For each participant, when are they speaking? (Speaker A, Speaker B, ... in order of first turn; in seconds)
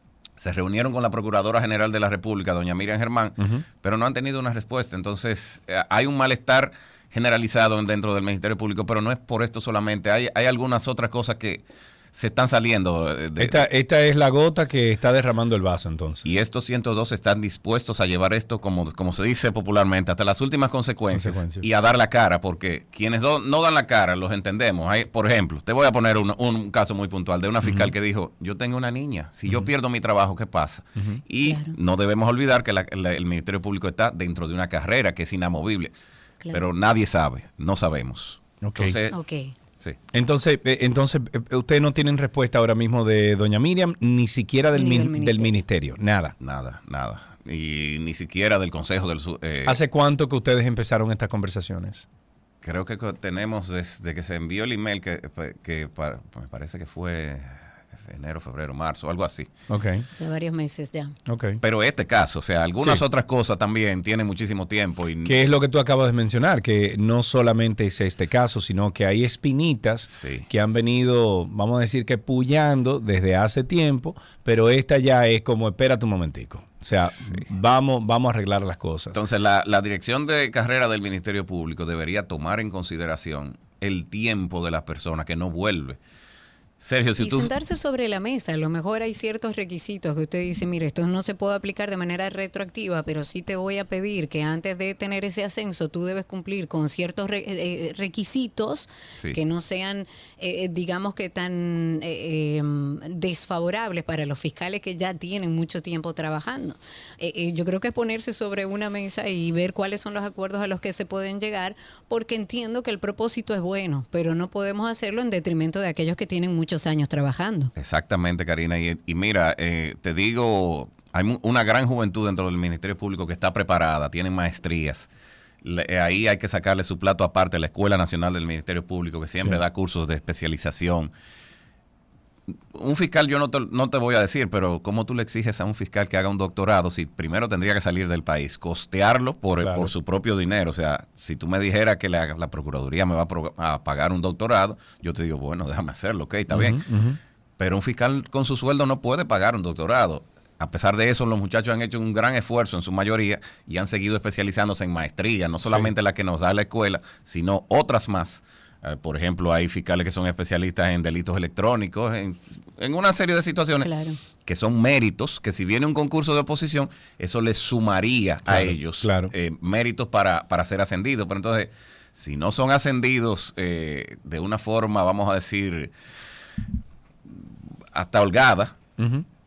Speaker A: 0.4-13.6, 16.2-35.9, 36.5-39.1, 46.4-49.8, 52.6-59.5, 61.6-65.4, 70.1-70.5, 77.1-77.5, 79.1-86.0, 86.8-87.5, 117.8-125.1, 125.6-131.1, 132.8-146.8, 147.6-163.9, 164.4-175.9, 177.9-178.8
Speaker B: 3.4-3.6, 13.4-16.3, 21.1-21.6, 27.6-27.9, 38.6-39.0, 40.1-46.3, 49.6-52.1, 59.7-60.1, 61.3-61.6, 65.2-79.2, 139.6-139.9, 146.5-147.2, 155.7-155.9, 168.5-169.3, 179.0-179.3
Speaker C: 31.4-31.7, 39.1-39.5, 44.8-45.5, 60.1-61.2, 87.2-117.7, 163.8-164.2